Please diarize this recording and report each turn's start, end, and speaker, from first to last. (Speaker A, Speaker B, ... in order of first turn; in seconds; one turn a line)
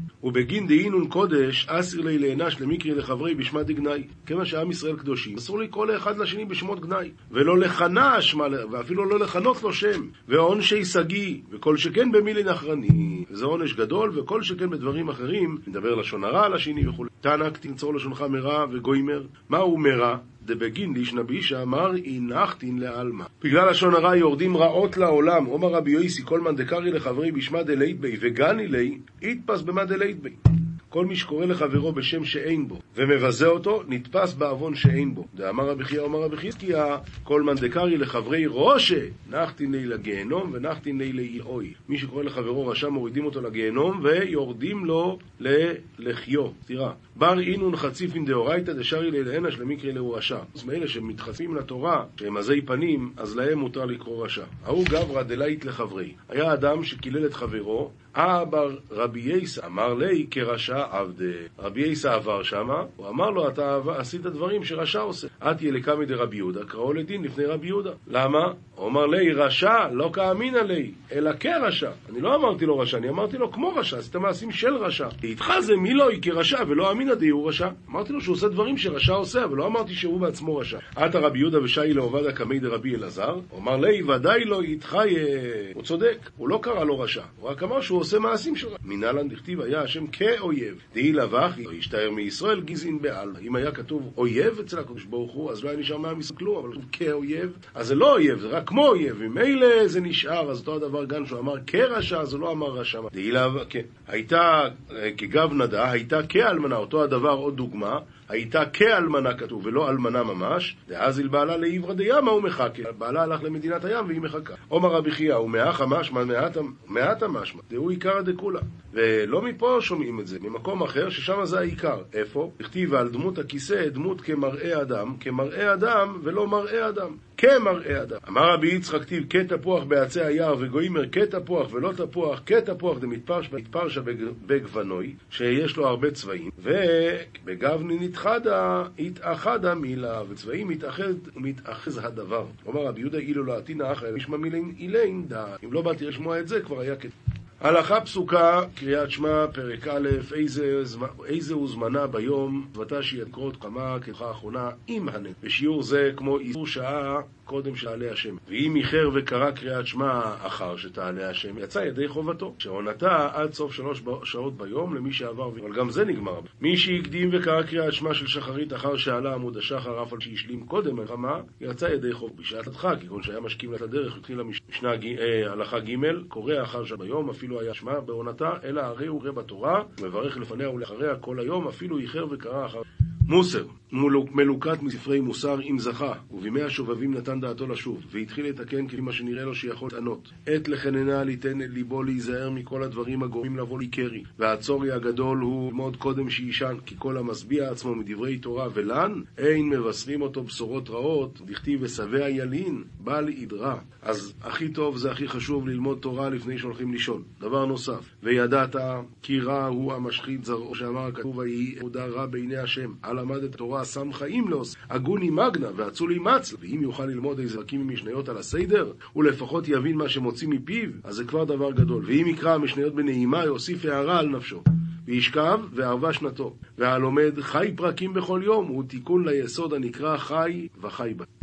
Speaker A: 0.2-231.3